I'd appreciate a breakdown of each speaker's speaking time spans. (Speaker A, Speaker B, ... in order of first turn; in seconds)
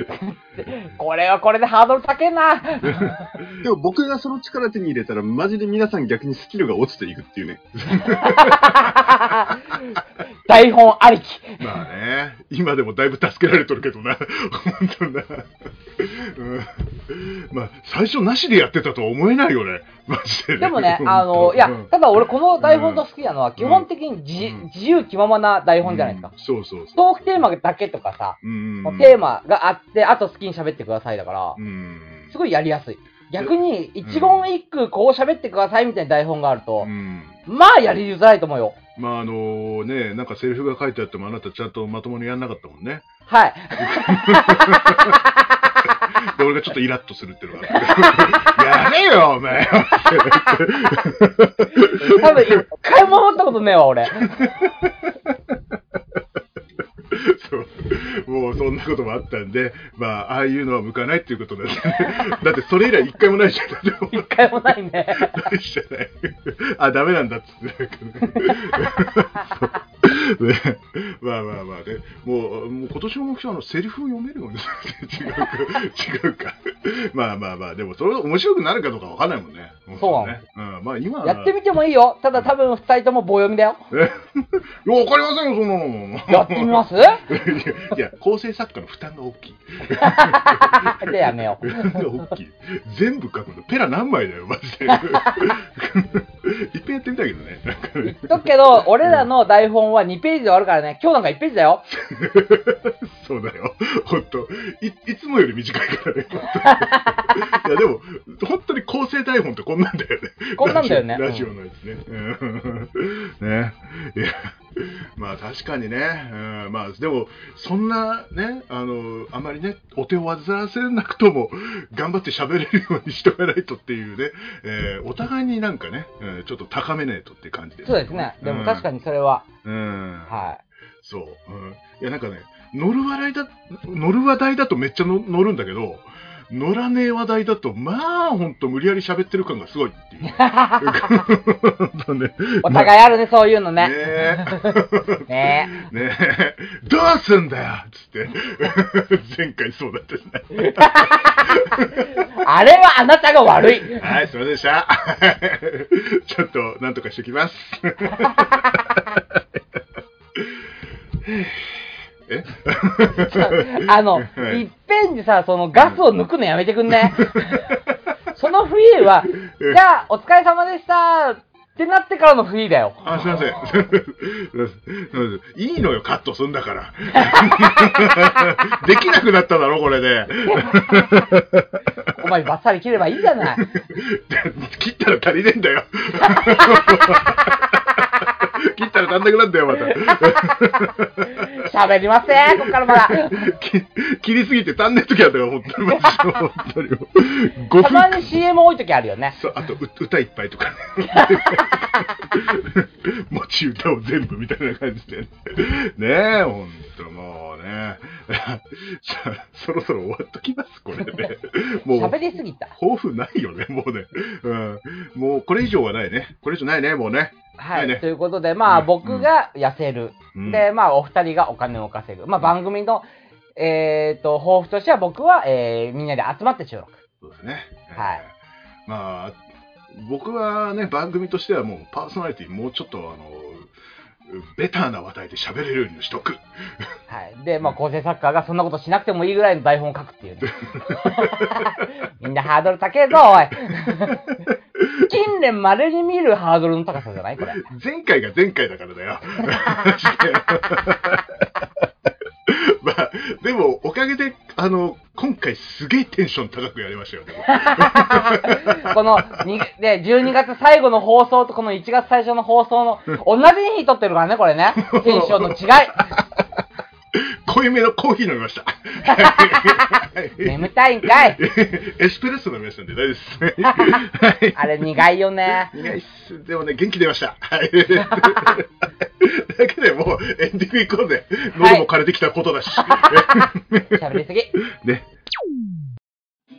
Speaker A: 0.2-3.3, 7.9-11.6, 20.6-26.3, 27.0-31.6, 32.3-36.9, 37.5-38.8, 43.3-45.9, 47.7-48.6, 50.0-50.7, 51.7-54.4, 64.1-65.5, 68.4-69.0, 80.0-80.4, 81.2-83.9, 86.3-87.3, 89.9-92.1, 94.9-95.5, 98.0-101.9, 106.5-107.4, 110.6-111.5, 127.8-129.5, 130.3-130.6, 140.3-141.1, 142.6-145.8, 150.5-154.1, 158.1-158.6, 163.3-167.8, 168.3-173.3, 177.1-178.3, 180.5-181.1, 182.1-183.7, 186.2-187.3, 189.7-193.5, 197.8-199.4, 201.1-201.8, 211.9-212.8, 217.6-227.0, 228.0-228.2, 237.1-244.2, 245.1-247.6, 257.4-266.2, 269.1-271.4, 273.7-274.0, 274.5-275.8, 278.1-278.6, 281.6-281.9, 282.8-284.6
Speaker B: 2.8-3.5, 7.8-9.1, 11.6-21.9, 22.6-23.1, 23.6-23.9, 24.4-24.7, 25.8-27.4, 28.4-29.2, 31.6-32.4, 33.4-34.5, 36.8-37.4, 39.0-43.1, 43.8-45.2, 45.9-52.5, 54.1-55.6, 57.1-64.3, 65.2-81.5, 83.9-98.5, 101.9-128.9, 129.6-130.4, 131.0-143.0, 143.8-152.2, 154.0-159.4, 160.3-160.6, 161.2-164.7, 166.9-167.9, 169.3-169.8, 173.0-182.1, 183.4-187.8, 188.4-191.7, 192.4-198.4, 199.3-212.2, 212.8-218.0, 218.7-219.3, 220.3-220.7, 227.2-228.3, 228.9-233.7, 234.3-236.9, 240.6-241.8, 243.9-245.1, 247.4-251.4, 252.5-259.4, 264.8-266.4, 267.1-275.0, 275.6-284.0, 284.6-285.1
Speaker C: 3.6-7.7